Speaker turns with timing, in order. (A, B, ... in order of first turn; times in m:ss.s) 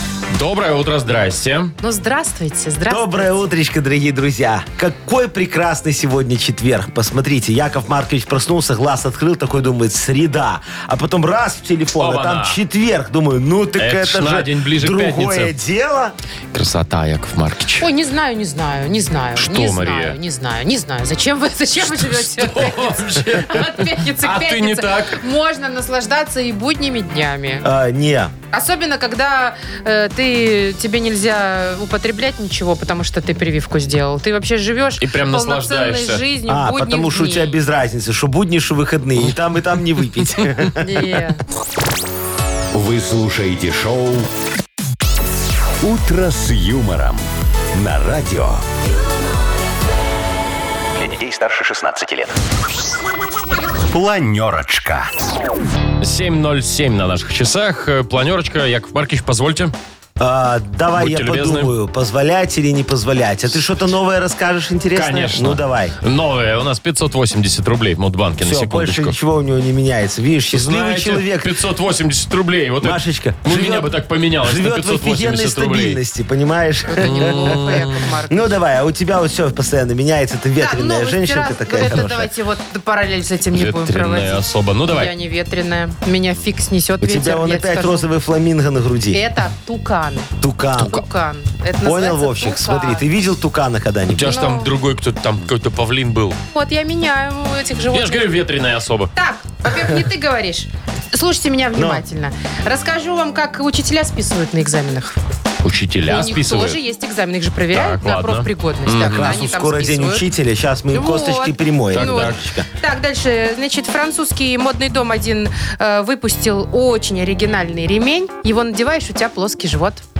0:00.3-0:01.7 A
0:01.8-0:03.3 B
0:02.9-0:16.1 C
0:12.0-0:12.6 A
0:13.8-0:15.5 A
0:16.5-0:17.8 A
0:17.8-0:27.7 B
0:19.4-0:20.2 A
0:21.8-0:25.2 A
0:27.6-0:28.3 C
0:28.5-0:37.6 B
0:35.0-0:36.2 A
0:36.5-0:41.0 C
0:40.8-0:41.4 B
0:42.7-0:44.3 D
0:45.8-0:48.6 D
0:51.0-0:52.2 D
0:53.9-0:55.1 D
0:56.0-0:59.7 A
1:00.2-1:06.0 C
1:01.0-1:01.7 A
1:04.9-1:09.1 A
1:08.4-1:11.6 C
1:10.5-1:16.0 A
1:12.8-1:22.3 C
1:16.9-1:18.6 B
1:17.0-1:17.9 A
1:20.6-1:28.0 B
1:23.5-1:25.1 A
1:27.0-1:29.2 C
1:29.1-1:33.0 B
1:30.4-1:31.0 C
1:31.8-1:34.4 C
1:34.1-1:36.4 A
1:34.2-1:34.7 B
1:36.5-1:38.4 B
1:37.9-1:39.1 A
1:39.1-1:45.2 B
1:41.7-1:42.0 C
1:45.6-1:46.8 A
1:46.0-1:50.2 B
1:47.7-1:49.4 A
1:49.0-1:52.7 C
1:50.9-2:00.0 B
1:51.9-1:52.4 A